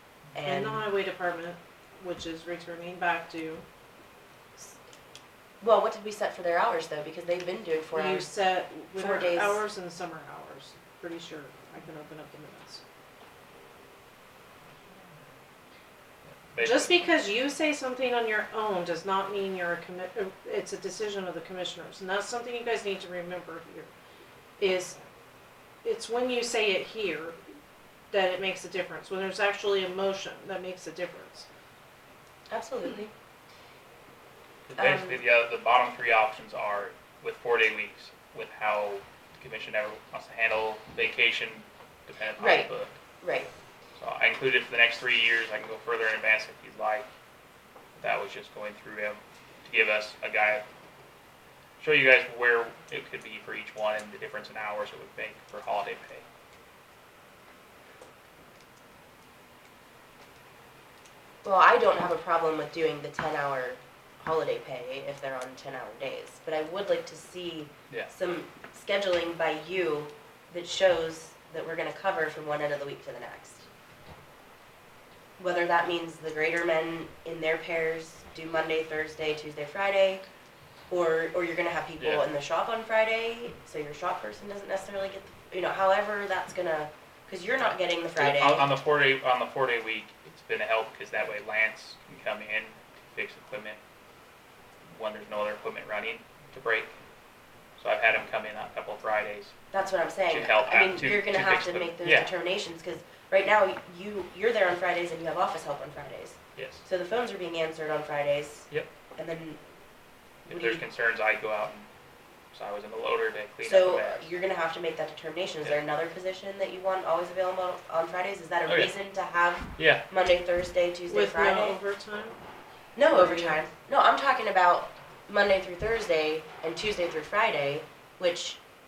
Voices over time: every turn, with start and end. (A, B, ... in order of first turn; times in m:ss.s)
0:00.3-0:00.8 A
0:00.4-0:03.6 B
0:05.6-0:08.3 A
0:07.9-0:12.8 B
0:09.0-0:09.6 A
0:16.5-0:17.1 C
0:16.6-0:23.9 B
0:24.6-0:25.0 B
0:25.8-0:27.4 B
0:28.1-0:31.4 B
0:32.5-0:33.1 A
0:34.7-0:42.9 C
0:34.8-0:35.2 A
0:42.4-0:43.5 A
0:44.0-0:47.0 C
0:48.0-0:50.6 C
0:51.8-0:56.2 C
1:01.4-1:13.7 A
1:15.4-1:20.2 A
1:20.9-1:28.7 A
1:28.2-1:33.8 C
1:34.9-1:36.9 C
1:37.8-1:39.6 C
1:39.7-1:49.6 A
1:40.3-1:42.3 C
1:46.6-1:46.8 C
1:50.5-1:50.8 A
1:50.5-1:51.9 C
1:52.5-1:54.3 C
1:53.6-2:01.8 A
1:58.6-1:58.9 C
1:59.8-2:00.0 C
2:01.1-2:02.4 B
2:03.0-2:08.6 A
2:03.1-2:03.6 B